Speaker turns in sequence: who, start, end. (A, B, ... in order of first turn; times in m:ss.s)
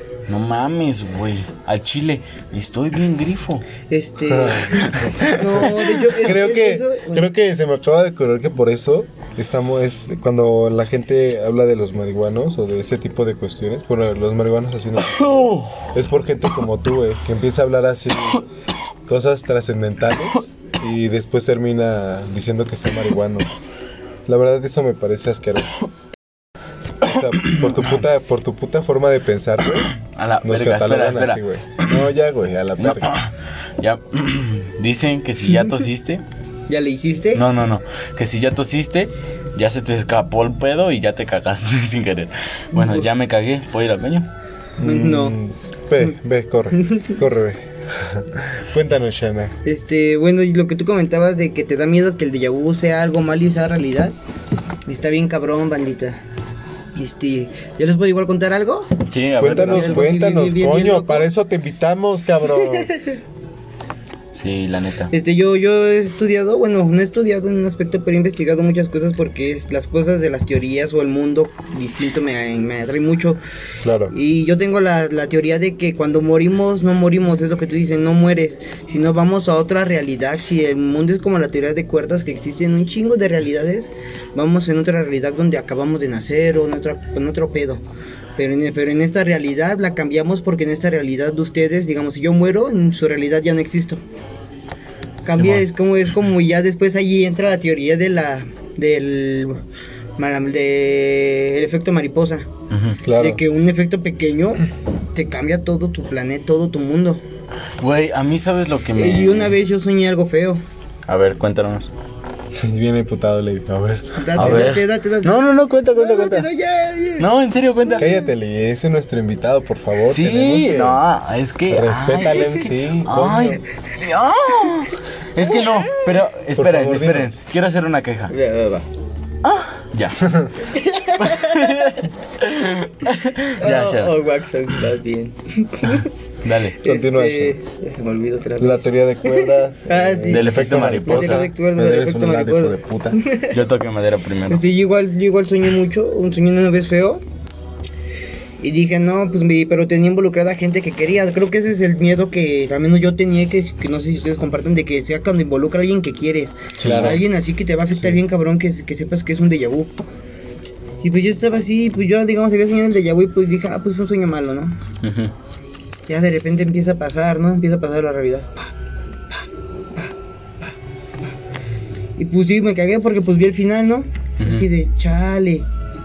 0:00.3-0:03.6 A
0:03.9-0:07.3 B
0:04.3-0:18.4 C
0:04.8-0:06.0 A
0:15.2-0:15.9 A
0:19.1-0:23.5 C
0:24.3-0:25.8 C
0:27.0-0:33.1 C
0:29.9-0:31.9 A
0:32.8-0:36.2 A
0:36.7-0:37.4 B
0:37.3-0:44.3 A
0:42.8-0:43.0 B
0:44.8-0:49.6 C
0:44.8-0:45.4 B
0:46.8-0:47.2 B
0:49.6-0:54.2 B
0:54.9-0:56.2 B
0:57.0-1:01.3 B
0:59.1-1:00.1 A
0:59.4-1:02.9 C
1:02.7-1:03.2 B
1:04.3-1:05.1 A
1:05.1-1:13.4 B
1:13.8-1:14.1 C
1:14.1-1:27.8 B
1:28.4-1:34.0 B
1:35.2-1:39.6 B
1:35.4-1:35.6 A
1:40.2-1:42.5 B
1:42.7-1:43.0 A
1:43.0-1:43.4 C
1:43.2-1:47.2 B
1:47.8-1:49.6 A
1:48.9-1:50.6 B
1:51.1-1:51.9 A
1:52.6-1:54.8 C
1:54.2-1:57.3 B
1:54.4-1:56.5 A
1:57.2-1:58.1 A
1:58.0-2:01.0 C
2:00.1-2:08.3 A
2:01.7-2:03.6 C
2:05.4-2:06.0 B
2:06.6-2:07.3 C
2:08.3-2:08.9 B
2:09.4-2:10.3 A
2:10.2-2:10.5 C
2:10.6-2:12.0 B
2:11.2-2:14.2 A
2:13.6-2:16.2 B
2:16.4-2:16.8 A
2:16.8-2:23.6 B
2:16.8-2:17.6 C
2:18.6-2:23.2 C
2:20.3-2:21.5 A
2:23.5-2:24.6 A
2:24.5-2:27.2 B
2:28.6-2:40.0 B
2:36.8-2:37.2 A
2:36.8-2:37.2 C
2:37.9-2:38.2 C
2:41.0-2:44.8 B
2:45.0-2:45.3 A
2:46.1-2:48.6 B
2:52.2-2:55.7 B
2:54.4-2:54.6 A